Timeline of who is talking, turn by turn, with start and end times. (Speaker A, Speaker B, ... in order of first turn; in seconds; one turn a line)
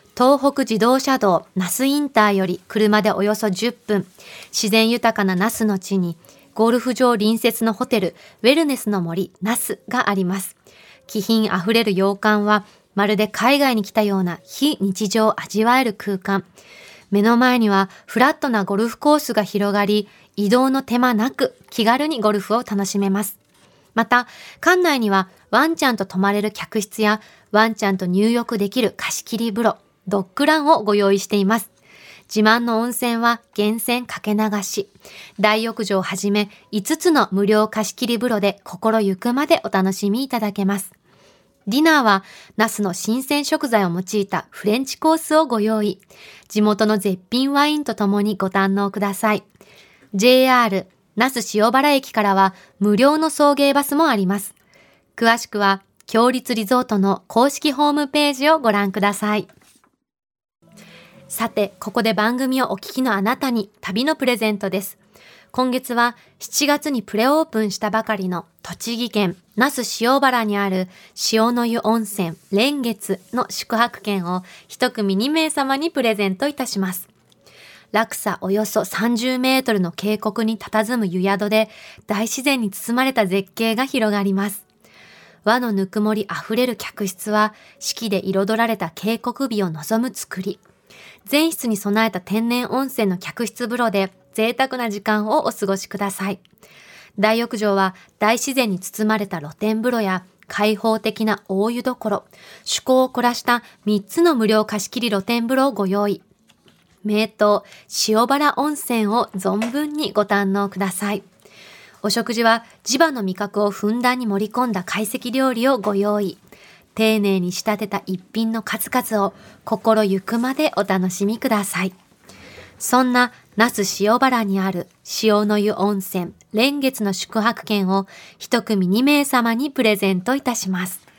Speaker A: 0.2-10.6
Speaker A: 11.1-16.5
Speaker A: 17.1-23.4
Speaker A: 24.0-31.7
Speaker A: 32.3-40.9
Speaker A: 41.7-49.5
Speaker A: 50.1-54.5
Speaker A: 55.2-59.5
Speaker A: 61.3-65.0
Speaker A: 65.5-77.1
Speaker A: 77.9-84.6
Speaker A: 85.5-90.6
Speaker A: 91.3-96.4
Speaker A: 97.2-106.2
Speaker A: 107.0-111.2
Speaker A: 112.0-116.4
Speaker A: 117.0-121.9
Speaker A: 122.8-131.0